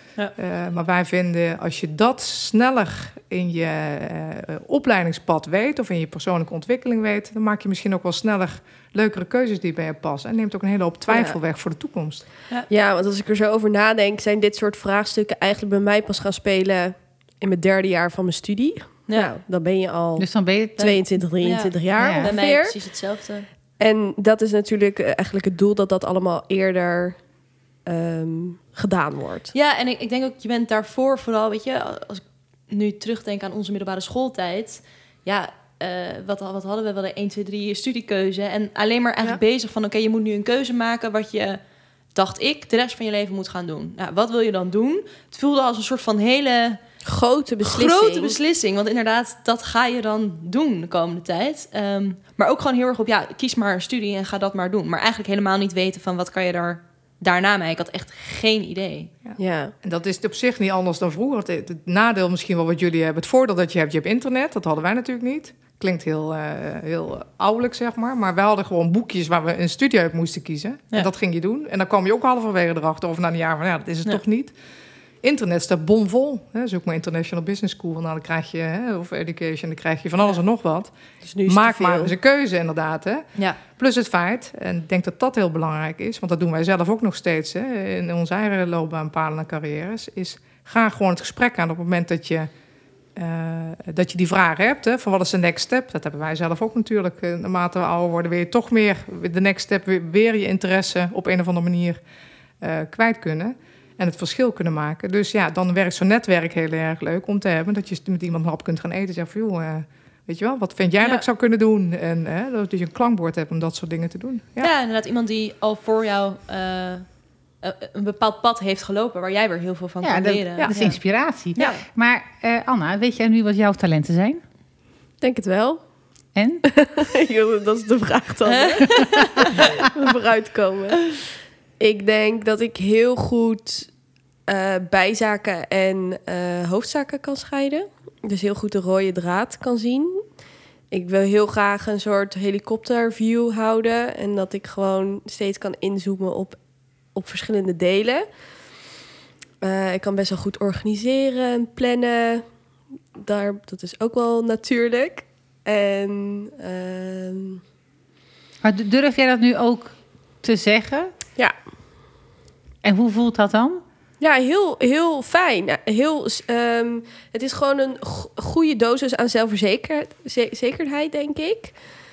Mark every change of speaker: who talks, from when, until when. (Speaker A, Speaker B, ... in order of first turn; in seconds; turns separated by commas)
Speaker A: 0.3-12.2, Speaker B: 11.1-11.4, Speaker B: 12.7-22.8, Speaker C: 20.2-21.0, Speaker D: 20.8-23.5, Speaker C: 22.0-22.4, Speaker B: 23.8-27.2, Speaker B: 27.9-29.5, Speaker D: 29.5-41.6, Speaker D: 42.1-46.8, Speaker B: 47.0-48.4, Speaker D: 47.6-59.1, Speaker A: 59.2-74.5, Speaker B: 59.4-59.7, Speaker A: 75.2-92.5, Speaker B: 81.2-82.1, Speaker A: 93.1-102.0, Speaker A: 102.6-114.7, Speaker D: 111.0-111.2, Speaker D: 114.6-117.1, Speaker D: 117.6-121.8, Speaker C: 120.0-124.4, Speaker A: 120.6-120.8, Speaker B: 125.2-125.9, Speaker C: 126.3-126.8, Speaker B: 126.7-129.2, Speaker D: 128.4-129.4, Speaker B: 129.8-131.2, Speaker B: 131.8-133.9, Speaker B: 134.5-140.2, Speaker B: 140.9-146.6, Speaker B: 147.1-148.2, Speaker B: 149.6-152.4, Speaker B: 153.2-157.6, Speaker C: 158.6-161.1, Speaker C: 162.8-163.8, Speaker B: 164.2-171.7